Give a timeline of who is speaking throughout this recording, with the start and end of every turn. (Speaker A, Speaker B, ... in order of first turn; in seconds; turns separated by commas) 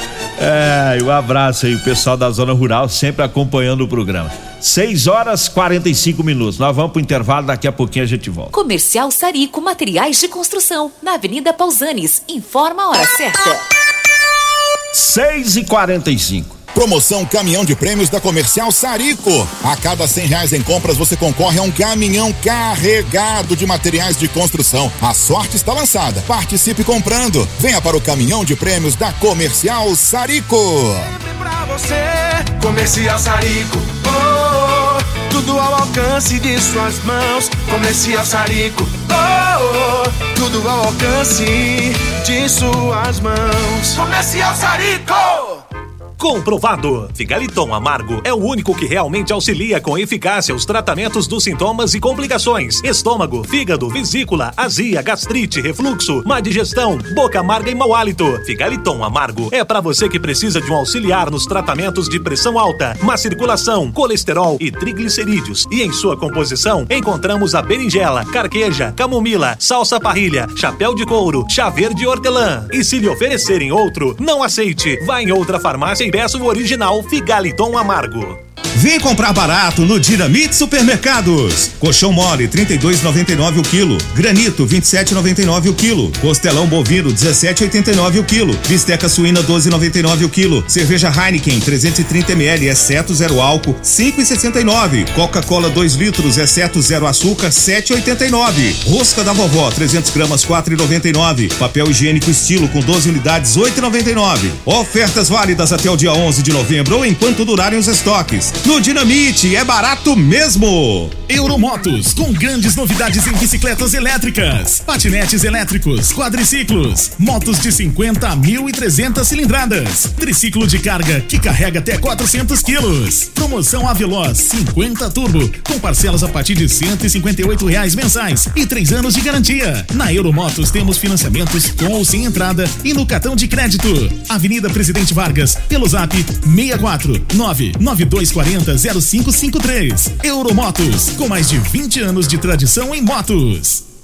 Speaker A: 0.4-8.5, Speaker B: 8.5-13.6, Speaker A: 14.9-16.6, Speaker C: 16.7-31.1, Speaker D: 31.1-45.6, Speaker E: 46.2-78.4, Speaker F: 78.7-111.2, Speaker G: 111.3-143.8